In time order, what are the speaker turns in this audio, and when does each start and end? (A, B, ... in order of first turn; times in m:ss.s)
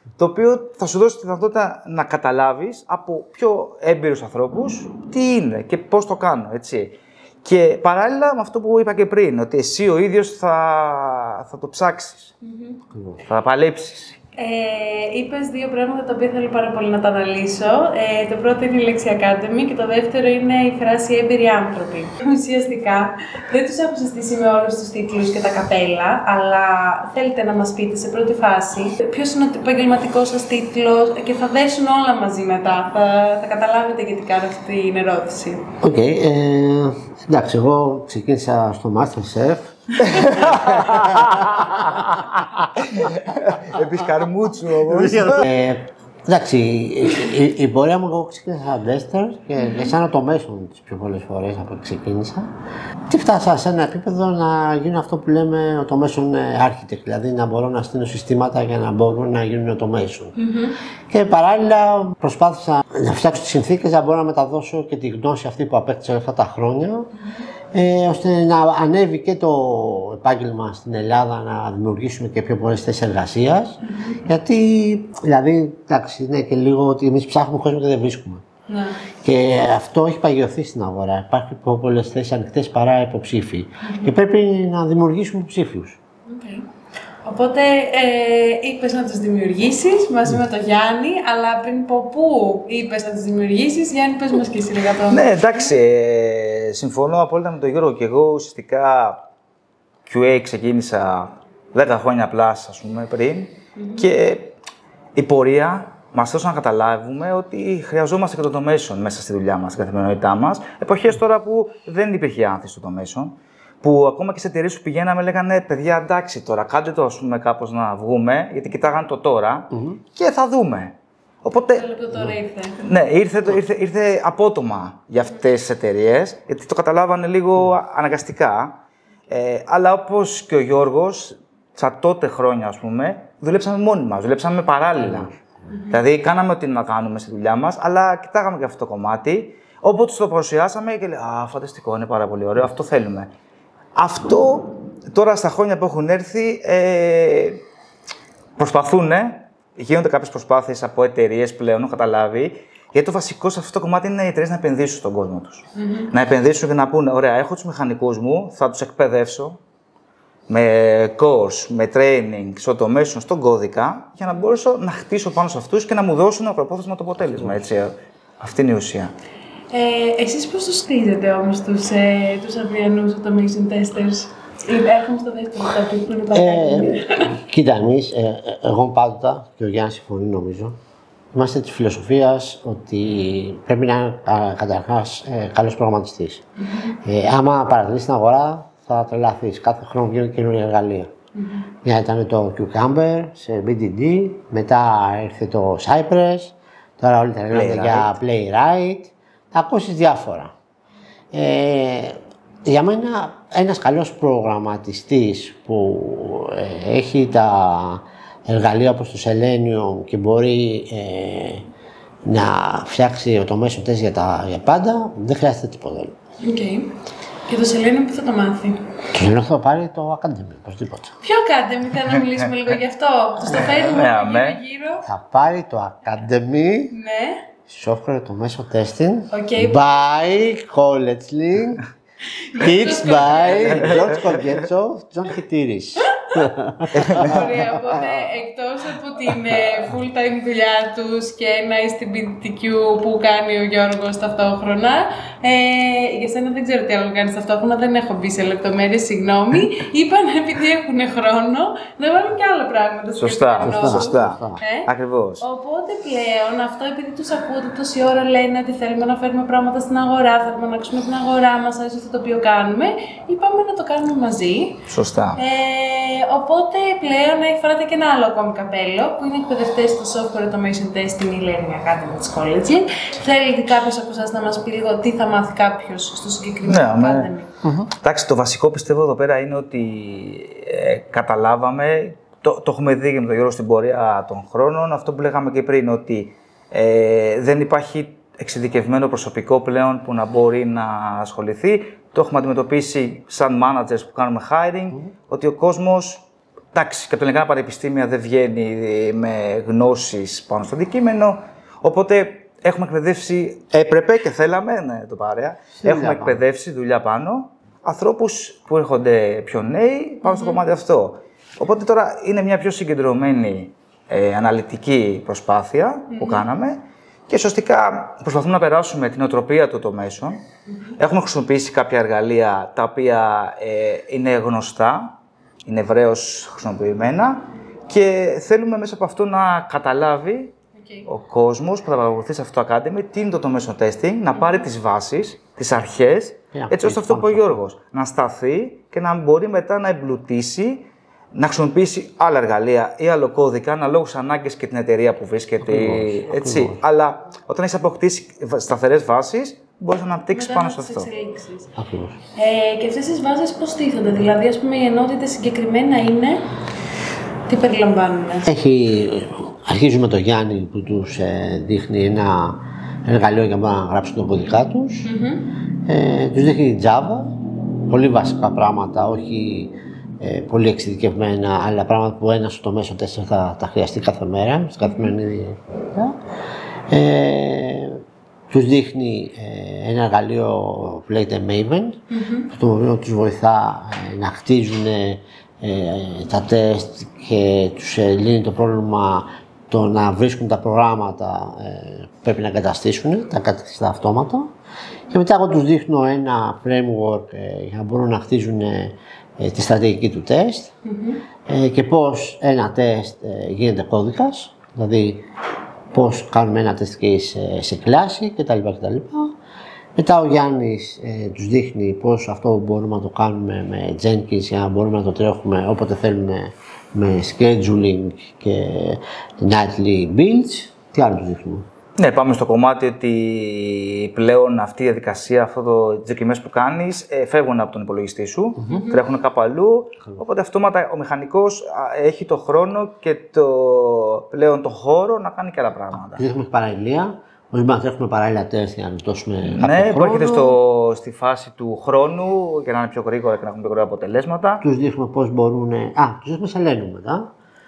0:00.2-0:12.3 A
0:12.4-0:12.8 B
0:12.9-0:13.2 C
0:13.2-0:14.2 A
0:14.4-0:35.7 B
0:35.8-0:42.7 C
0:40.1-0:41.8 A
0:42.8-0:45.5 A
0:44.9-0:52.5 C
0:49.6-0:49.9 B
0:53.1-1:00.3 C
1:00.4-1:00.8 B
1:01.1-1:07.1 C
1:07.7-1:18.4 C
1:13.8-1:14.2 B
1:18.7-1:19.0 B
1:19.2-1:26.0 C
1:23.8-1:24.1 B
1:26.3-1:26.7 B
1:27.2-1:35.8 B
1:35.1-1:39.2 A
1:40.0-1:44.6 A
1:43.8-1:44.1 B
1:45.2-2:01.9 A
1:59.7-2:00.0 C
2:01.7-2:02.8 B
2:02.8-2:08.8 A
2:09.3-2:15.3 A
2:15.0-2:15.3 C
2:15.7-2:16.0 B
2:15.9-2:23.3 A
2:23.9-2:27.6 A
2:28.6-2:39.6 A
2:35.7-2:36.1 B
2:40.5-2:49.1 A
2:49.7-2:57.3 B
2:56.3-3:00.8 C
3:01.3-3:06.4 C
3:06.6-3:06.9 B
3:07.0-3:11.1 C
3:11.4-3:11.7 B
3:11.8-3:20.5 C
3:17.5-3:18.1 A
3:21.3-3:31.6 C
3:32.2-3:36.1 C
3:36.4-3:36.9 B
3:37.5-3:39.0 B
3:39.1-3:41.1 C
3:41.2-3:45.0 B
3:43.5-3:44.6 A
3:45.0-3:47.0 C
3:46.9-3:47.5 B
3:47.7-3:51.8 C
3:49.3-3:49.9 B
3:52.5-3:54.0 B
3:52.6-3:58.1 C
3:53.5-3:54.4 A
3:56.9-3:57.6 A
3:57.0-4:14.9 B
4:13.2-4:15.4 A
4:13.6-4:14.6 C
4:15.4-4:24.8 B
4:24.9-4:25.4 A
4:25.4-4:37.5 B
4:36.6-4:37.3 A
4:37.6-4:37.9 C
4:37.9-5:20.4 A
5:05.8-5:06.4 C
5:10.2-5:10.6 B
5:16.1-5:16.5 B
5:20.7-5:21.0 B
5:21.0-5:30.5 A
5:30.8-5:31.1 B
5:31.0-5:51.1 A
5:34.3-5:34.7 B
5:36.5-5:37.6 C
5:45.6-5:46.8 C
5:50.3-5:51.7 B
5:51.8-5:52.2 C
5:52.3-5:56.4 B
5:57.5-5:58.5 B
5:58.4-6:05.1 C
6:05.0-6:05.5 B
6:05.9-6:16.2 C
6:14.8-6:15.1 B
6:16.9-6:34.5 C
6:22.1-6:22.5 B
6:35.1-6:40.7 C
6:40.8-6:41.2 B
6:41.4-6:45.2 C
6:45.9-6:49.4 C
6:50.0-7:01.6 C
7:02.0-7:16.2 A
7:08.7-7:09.0 B
7:16.0-7:20.6 C
7:19.4-7:24.6 A
7:24.6-7:27.3 C